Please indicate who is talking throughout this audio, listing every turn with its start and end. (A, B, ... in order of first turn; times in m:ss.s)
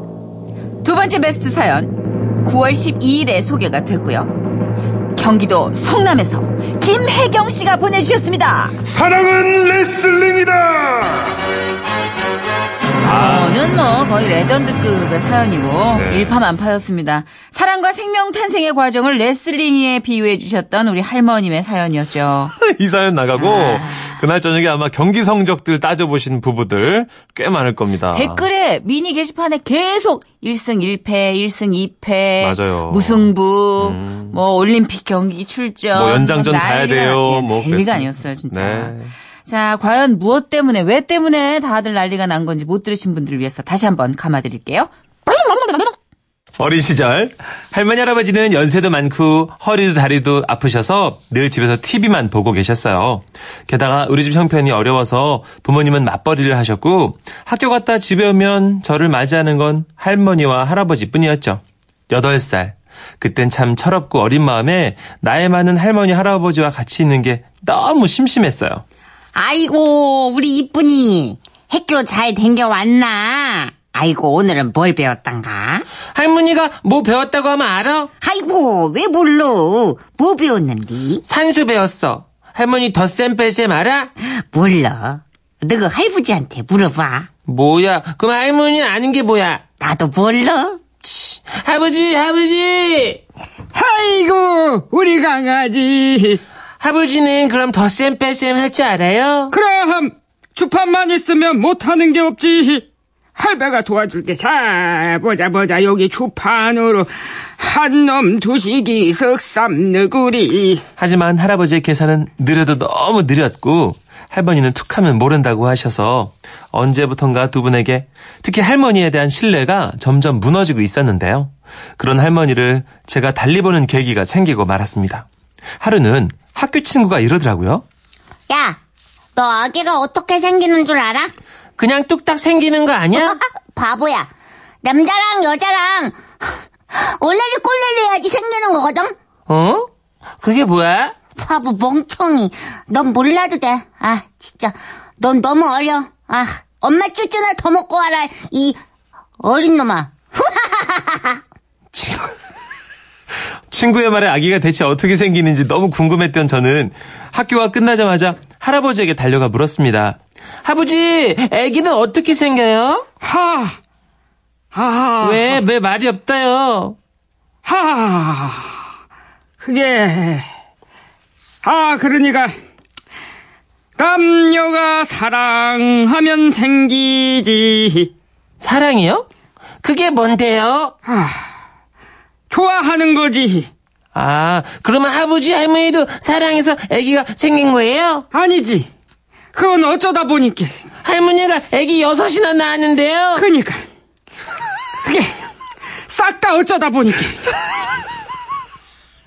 0:00.8-0:04.3 A
0:05.2-0:08.8 A
0:08.8-0:11.3 B
0:13.0-0:13.6 C
0:13.0-0:22.5 A
0:15.9-0:16.4 C
0:22.5-0:28.4 C
0:28.1-0:45.9 A
0:32.4-0:34.4 C
0:35.9-0:39.1 C
0:46.6-1:08.8 C
1:09.3-1:15.8 D
1:16.1-1:18.1 E
1:18.2-1:21.2 D
1:21.2-1:24.1 E
1:24.2-1:27.3 D
1:27.4-1:29.6 E
1:29.8-1:30.8 D
1:31.0-1:33.2 E
1:33.7-1:36.4 F
1:36.8-1:39.5 E
1:39.5-1:50.8 F
1:51.0-2:05.2 C
2:05.8-2:07.8 C
2:08.5-2:08.8 D
2:09.4-2:11.3 D
2:11.8-2:13.4 E
2:13.1-2:14.3 D
2:14.8-2:19.1 D
2:19.5-2:19.9 E
2:20.4-2:21.1 E
2:21.4-2:28.8 D
2:29.4-2:31.4 D
2:31.9-2:32.3 C
2:33.7-2:40.2 C
2:40.6-2:43.0 E
2:43.2-2:43.8 F
2:44.7-2:45.6 F
2:45.2-2:47.0 E
2:47.6-2:48.8 F
2:49.6-2:50.4 F
2:51.6-2:52.5 F
2:54.0-2:58.1 F
2:58.6-2:59.3 E
2:59.8-3:00.9 E
3:01.0-3:01.5 F
3:02.5-3:03.7 F
3:04.1-3:08.2 E
3:08.3-3:08.9 F
3:09.5-3:10.7 F
3:11.0-3:13.5 E
3:13.3-3:13.8 F
3:15.0-3:15.4 F
3:16.1-3:17.5 F